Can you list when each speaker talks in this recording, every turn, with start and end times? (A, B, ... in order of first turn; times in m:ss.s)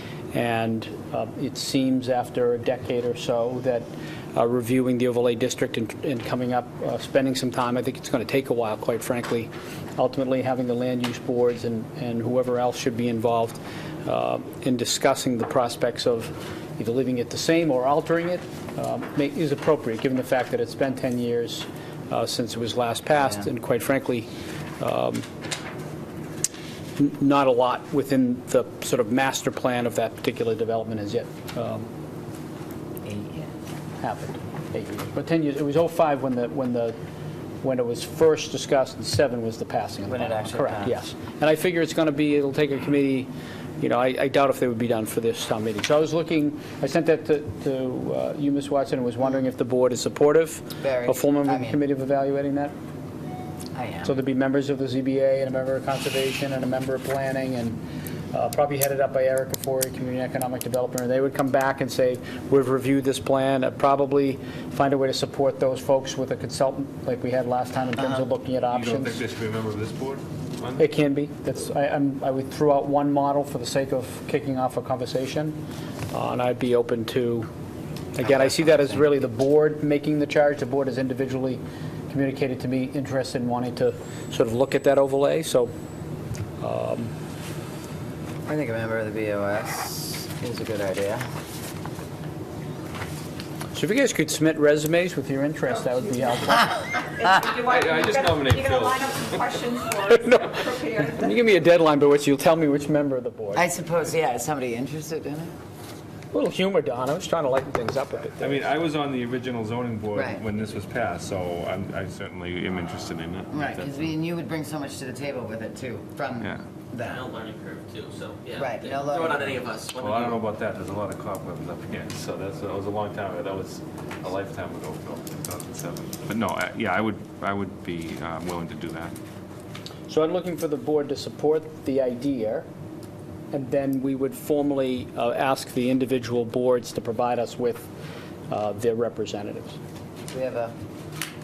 0:00.3-0:24.3 A
0:24.8-0:25.2 A
0:27.0-0:31.9 A
0:33.1-0:33.5 B
0:34.0-0:37.0 A
0:37.6-0:52.7 A
0:40.1-0:41.0 B
0:50.8-0:51.8 B
0:53.8-0:54.1 B
0:54.0-1:09.2 A
1:08.7-1:10.8 C
1:10.8-1:15.6 A
1:16.1-1:17.5 A
1:18.2-1:25.7 A
1:18.2-1:19.0 B
1:26.6-1:27.1 A
1:28.5-1:31.3 B
1:33.7-1:36.9 A
1:37.2-1:41.3 D
1:37.4-1:39.5 C
1:40.0-1:43.7 A
1:43.5-1:45.5 B
1:46.3-1:48.7 A
1:48.4-1:54.0 C
1:50.1-1:50.4 B
1:53.5-1:57.2 B
1:57.0-2:00.4 E
1:58.6-1:59.6 B
1:59.9-2:09.1 C
2:10.1-2:12.7 A
2:13.5-2:17.9 A
2:18.5-2:19.8 A
2:20.3-2:20.7 B